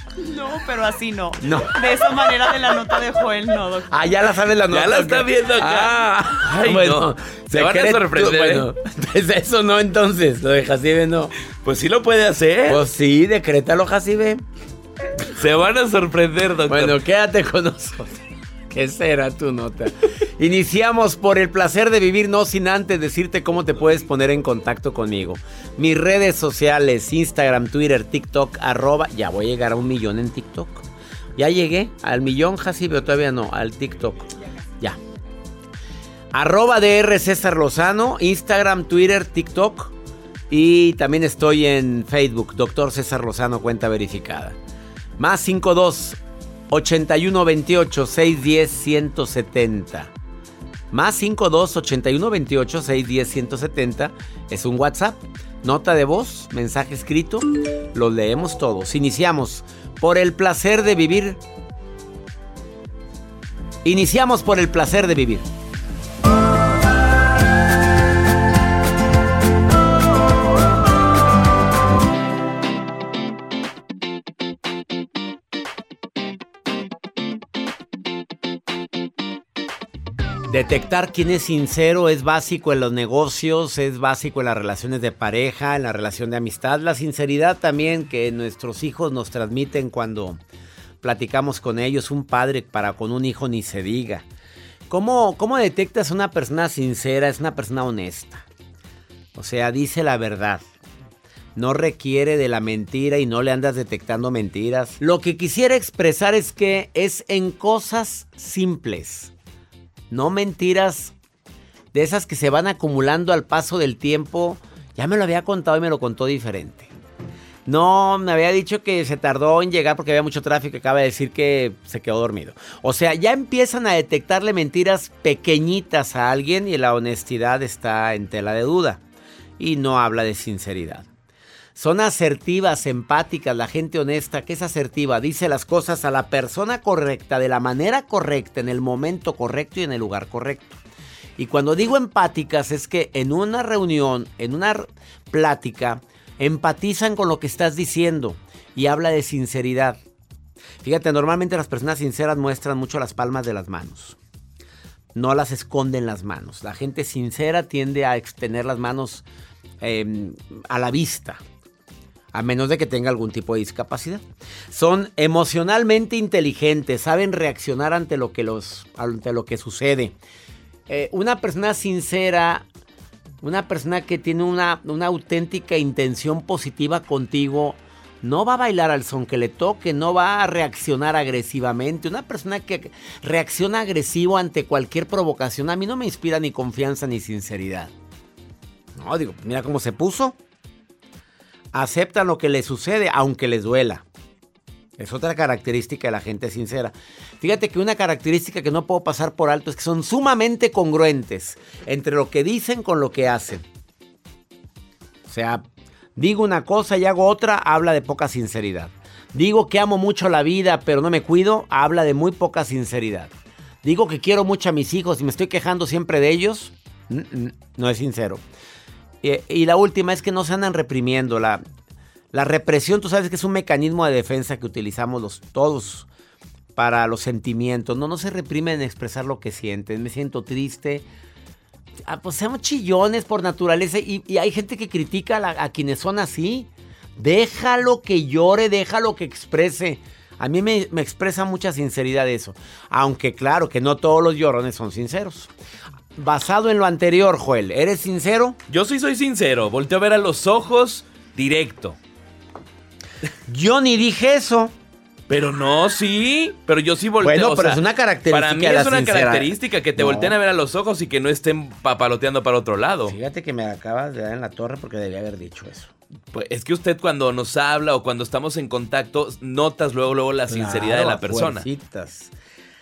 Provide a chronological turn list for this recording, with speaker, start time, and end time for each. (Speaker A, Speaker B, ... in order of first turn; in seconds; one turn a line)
Speaker A: 0.2-4.0
Speaker B: 1.4-1.7
Speaker B: 3.9-11.3
Speaker C: 4.7-8.7
Speaker C: 11.6-12.8
Speaker B: 12.7-14.4
Speaker C: 15.3-17.0
Speaker B: 16.7-34.3
Speaker B: 36.3-39.9
Speaker B: 40.5-44.5
Speaker B: 45.2-50.1
Speaker B: 50.9-61.4
Speaker B: 63.8-65.5
Speaker B: 80.5-90.4
Speaker B: 91.0-94.2
Speaker B: 94.9-98.5
Speaker B: 99.3-100.6
Speaker B: 101.5-109.3
Speaker B: 110.1-111.1
Speaker B: 111.9-116.9
Speaker B: 117.7-129.0
Speaker B: 129.6-131.1
Speaker B: 131.7-140.8
Speaker B: 141.4-150.0
Speaker B: 150.8-154.2
Speaker B: 155.1-159.2
Speaker B: 159.8-161.4
Speaker B: 162.3-170.1
Speaker B: 170.9-172.7
Speaker B: 173.4-187.9
Speaker B: 188.9-190.3
Speaker B: 191.7-194.0
Speaker B: 195.0-203.7
Speaker B: 205.2-213.3
Speaker B: 213.8-218.4
Speaker B: 219.2-221.6
Speaker B: 222.3-226.1
Speaker B: 226.8-231.1
Speaker B: 232.0-245.5
Speaker B: 246.2-248.6
Speaker C: 248.7-252.0
Speaker B: 253.5-254.7
Speaker C: 255.3-263.1
Speaker B: 257.2-260.3
Speaker B: 263.1-265.9
Speaker C: 266.3-271.6
Speaker B: 270.5-272.3